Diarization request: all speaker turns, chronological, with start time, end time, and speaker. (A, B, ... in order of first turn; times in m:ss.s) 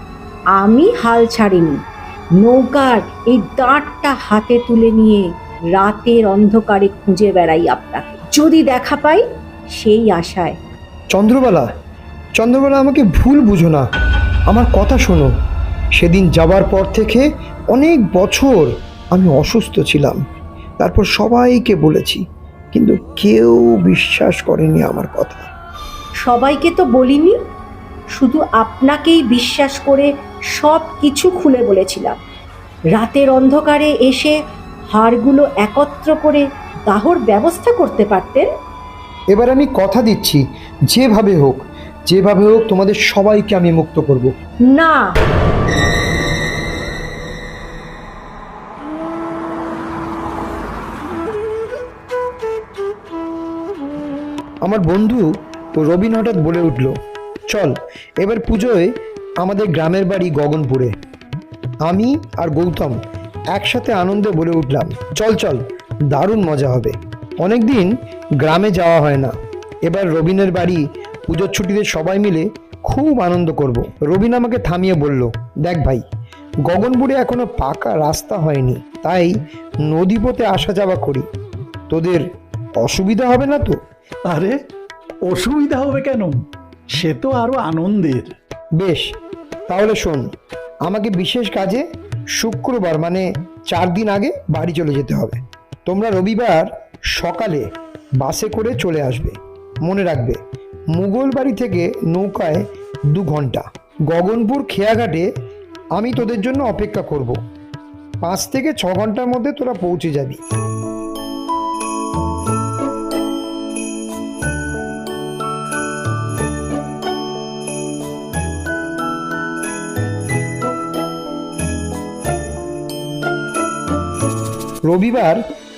0:00.6-0:01.8 A
0:02.4-0:09.2 A
0:09.7-0:10.6 A
0:11.1-0:11.7 B
0:12.4-0:13.8 B
0:14.5-0:15.3 B
0:16.0-0:20.2 B
0:20.8-0:22.2 B
0:22.7-0:25.5 B
0:26.2-0:27.4 A
0:28.2-0:32.2 A
0:33.0-0:34.4 A
0:34.9-0:38.5 A
0:39.3-0:44.3 B
0:44.7-0:45.1 A
0:54.6-0:57.0 B
0:57.5-1:00.9 B
1:01.8-1:03.0 B
1:03.5-1:09.3 B
1:09.8-1:16.0 B
1:16.6-1:21.3 B
1:21.9-1:22.2 B
1:22.8-1:23.8 B
1:24.2-1:24.6 C
1:25.3-1:26.3 C
1:27.0-1:28.3 C
1:28.8-1:29.1 B
1:29.7-1:30.2 B
1:30.8-1:31.8 B
1:32.4-1:37.6 B
1:38.2-1:40.4 B
1:40.9-1:45.3 B
1:45.9-1:47.4 B
1:48.2-1:50.4 B
2:04.9-2:05.4 B